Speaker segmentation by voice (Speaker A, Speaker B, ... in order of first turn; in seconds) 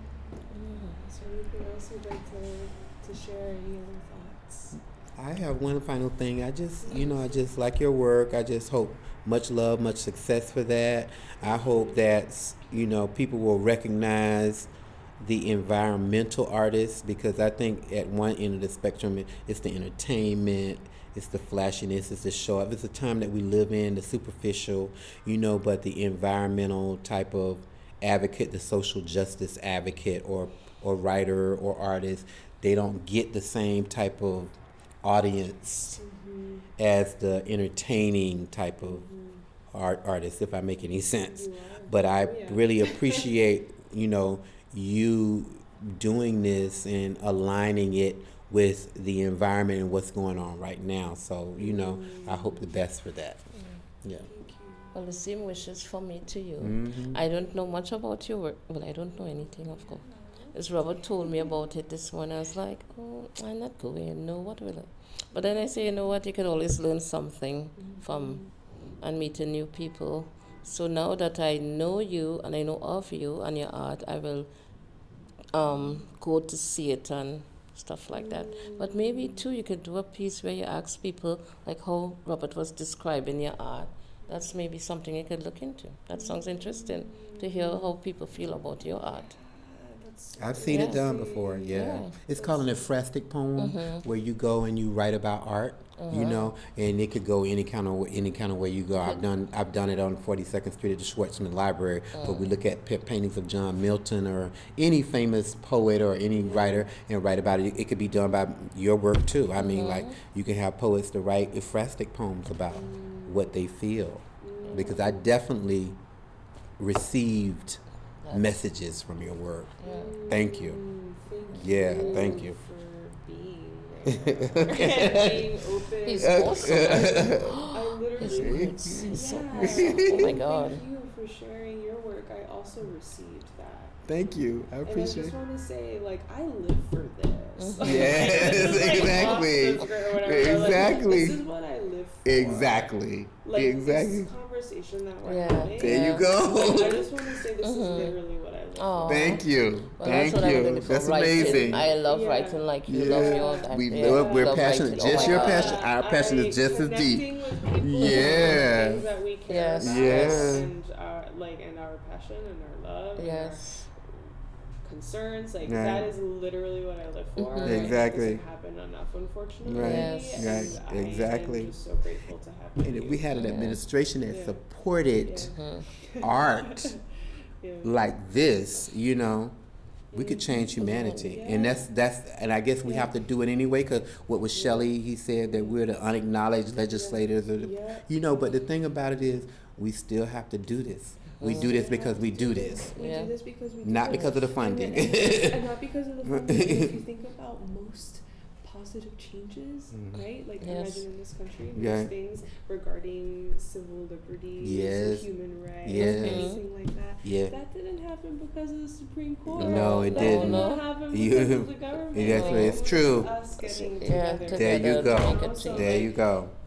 Speaker A: 0.5-1.0, 54.9-68.4, 69.0-74.5, 75.5-89.3, 90.7-91.0, 91.7-92.1, 93.6-94.0, 96.0-96.5, 102.1-102.5, 109.6-110.2, 114.7-115.0, 119.8-120.1, 121.5-122.5, 126.0-130.8, 137.6-139.6, 145.2-146.3, 147.6-148.2, 148.8-155.8, 158.0-158.8, 159.5-160.7, 163.2-163.9, 167.4-168.0, 169.7-170.8, 173.3-173.8, 175.5-175.9, 180.8-181.1, 191.4-191.7, 192.9-193.3, 200.6-201.0, 205.9-206.6, 209.6-210.9, 212.1-213.0, 213.6-216.1
Speaker B: 1.0-4.8, 6.8-7.4, 11.4-12.0, 36.0-36.7, 38.8-39.4, 41.2-43.4, 51.6-52.7, 54.2-55.0, 59.3-60.5, 61.2-61.5, 65.3-65.6, 67.8-68.5, 78.1-79.4, 84.3-84.5, 86.1-87.9, 88.8-92.9, 106.4-106.9, 112.7-113.6, 114.4-115.3, 119.8-134.0, 134.8-149.4, 151.1-163.8, 164.8-173.3, 174.3-174.6, 175.2-177.1, 177.6-178.1, 180.1-181.9, 182.8-183.1, 184.5-184.9, 185.4-185.8, 186.9-188.4, 191.4-216.1
Speaker C: 4.8-36.0, 36.8-39.0, 39.7-53.4, 56.6-57.2, 90.4-116.0, 116.8-117.8, 118.3-120.8, 121.5-122.6, 124.1-125.6, 126.2-127.7, 128.4-130.4, 134.1-135.4, 137.8-141.4, 142.2-144.3, 145.8-147.1, 149.1-151.8, 152.9-159.0, 159.8-160.7, 165.6-166.1, 167.6-168.4, 169.6-171.7, 172.8-175.6, 176.2-176.9, 177.8-179.6, 180.1-192.9, 193.8-195.6, 196.2-196.9, 199.9-200.2, 201.7-202.1, 204.6-205.3, 205.8-206.6, 207.2-207.5, 209.5-213.4, 214.5-216.5